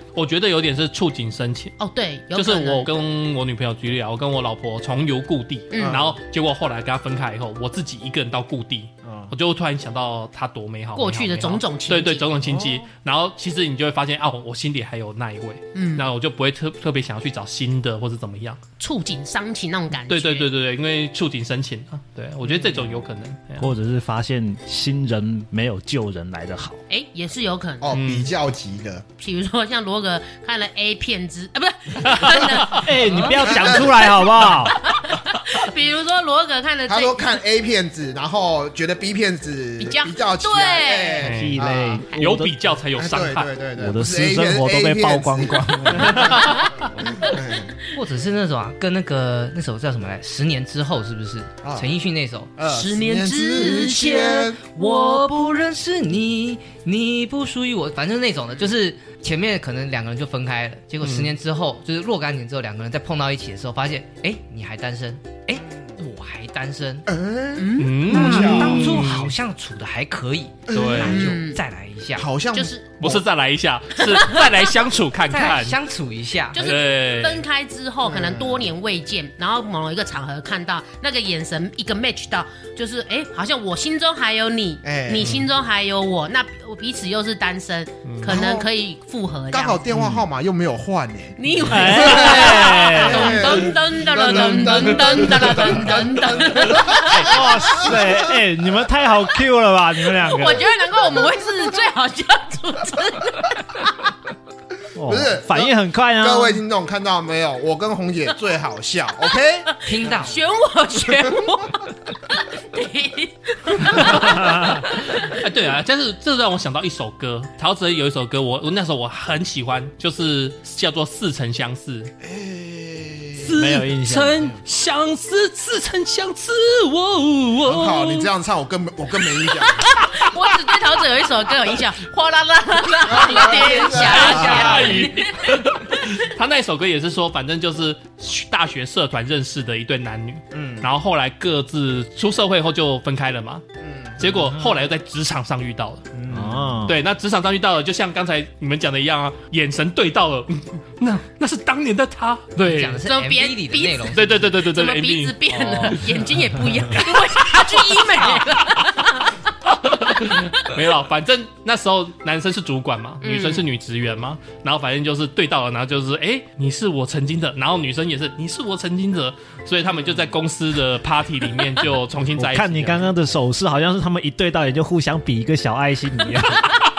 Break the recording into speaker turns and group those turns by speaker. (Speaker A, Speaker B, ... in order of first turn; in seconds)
Speaker A: 0.1-1.8, 2.4-18.6, 20.1-23.7, 27.9-28.3, 32.1-33.3, 41.2-43.5, 61.0-61.3, 67.8-69.4, 70.7-71.2, 73.0-75.8, 76.6-77.4, 85.2-85.5, 88.0-88.4, 113.8-122.1, 123.4-128.3, 133.8-143.6, 144.2-146.1, 146.9-153.0, 154.1-156.2, 159.7-173.1
Speaker B: 1.8-2.9, 5.7-6.0, 11.0-12.4, 15.7-16.1, 18.8-20.5, 26.9-28.0, 29.2-37.4, 39.8-41.3, 46.2-47.4, 52.6-54.9, 67.6-68.9, 71.0-71.6, 72.5-72.9, 74.1-74.4, 76.5-89.8, 91.4-97.9, 100.2-103.8, 109.9-115.4, 129.8-135.6, 153.1-159.4, 160.2-160.7, 163.2-163.7
Speaker C: 5.8-6.2, 9.0-9.3, 12.4-12.8, 27.8-29.1, 33.4-33.9, 36.9-42.1, 43.0-47.8, 51.6-51.9, 52.6-54.6, 65.6-66.0, 67.1-69.1, 70.7-71.4, 72.2-73.2, 78.0-78.7, 84.8-85.3, 88.2-88.7, 89.5-98.3, 105.0-110.3, 122.2-123.6, 127.7-130.0, 133.1-135.1, 140.5-140.9, 143.8-144.5, 146.1-146.8, 170.0-170.2
Speaker D: 23.6-26.8, 32.7-34.9, 41.3-42.5, 43.8-46.4, 89.9-90.2, 91.7-93.6, 97.1-100.7, 105.0-106.6, 114.2-114.8, 123.5-124.5, 146.3-147.0, 172.4-176.8
Speaker E: 47.9-52.5, 53.6-67.1, 68.1-72.3, 75.3-76.7, 109.8-110.4, 152.6-154.4, 158.1-158.4